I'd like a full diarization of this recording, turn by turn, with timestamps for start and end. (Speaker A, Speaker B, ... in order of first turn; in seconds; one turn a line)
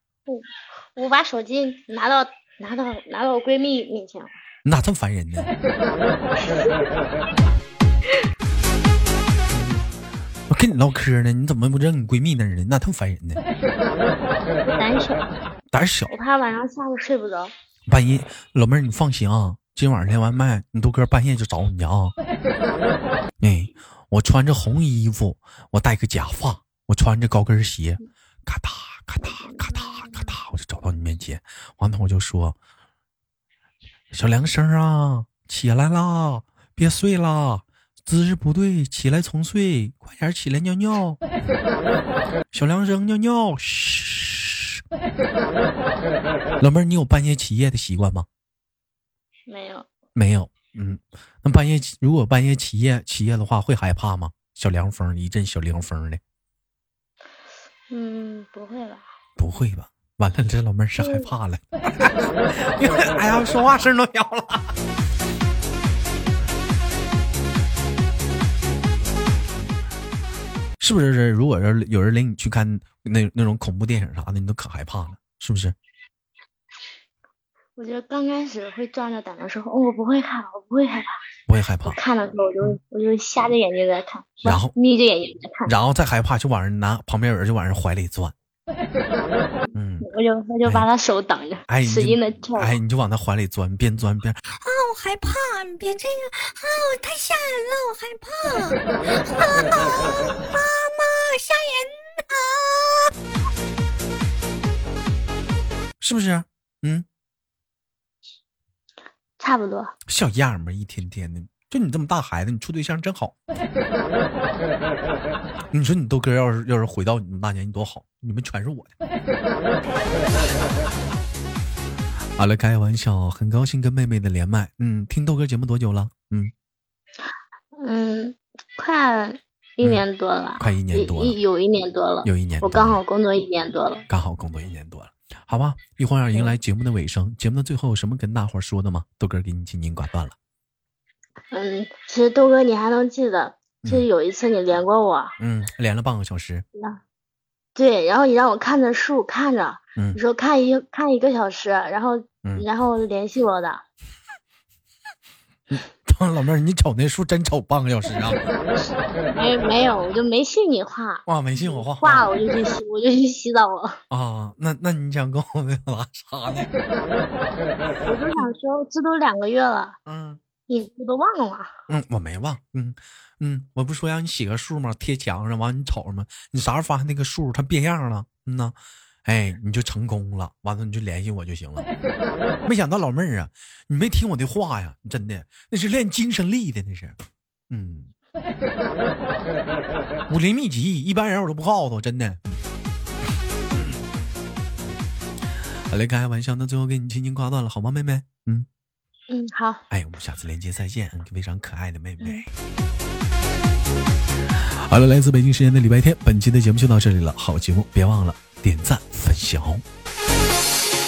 Speaker A: 0.3-4.3
Speaker B: 4.7-5.5
Speaker B: 9.5-9.8
Speaker B: 10.5-13.4
Speaker A: 14.6-15.3
Speaker B: 15.7-16.1
Speaker A: 16.1-17.5
Speaker B: 17.9-22.1
Speaker B: 23.4-32.6
Speaker B: 34.1-41.2
Speaker B: 42.5-44.8
Speaker B: 46.6-48.3
Speaker A: 49.5-49.9
Speaker B: 50.1-56.2
Speaker A: 57.9-59.1
Speaker B: 59.4-64.7
Speaker A: 61.0-61.3
Speaker B: 70.8-75.8
Speaker A: 77.8-81.2
Speaker B: 81.5-82.0
Speaker A: 81.9-85.7
Speaker B: 84.5-84.7
Speaker B: 85.7-88.3
Speaker B: 89.7-90.1
Speaker A: 90.0-92.8
Speaker B: 91.7-94.4
Speaker C: 94.5-103.1
Speaker B: 106.0-107.1
Speaker A: 109.4-109.9
Speaker B: 110.1-113.3
Speaker B: 115.7-118.9
Speaker B: 122.4-126.5
Speaker A: 127.8-134.1
Speaker B: 130.6-131.4
Speaker B: 132.2-133.0
Speaker B: 134.1-140.3
Speaker A: 141.5-145.3
Speaker B: 145.4-146.7
Speaker A: 147.8-153.8
Speaker B: 155.7-158.5
Speaker A: 159.3-164.0
Speaker B: 161.3-162.3
Speaker B: 164.1-166.7
Speaker A: 168.1-170.0
Speaker B: 170.1-170.4
Speaker A: 170.7-171.7
Speaker B: 171.9-181.9
Speaker B: 182.7-187.2
Speaker B: 187.7-188.1
Speaker B: 190.3-192.4
Speaker B: 195.9-198.7
Speaker A: 199.3-199.8
Speaker B: 199.9-202.5
Speaker B: 204.6-209.8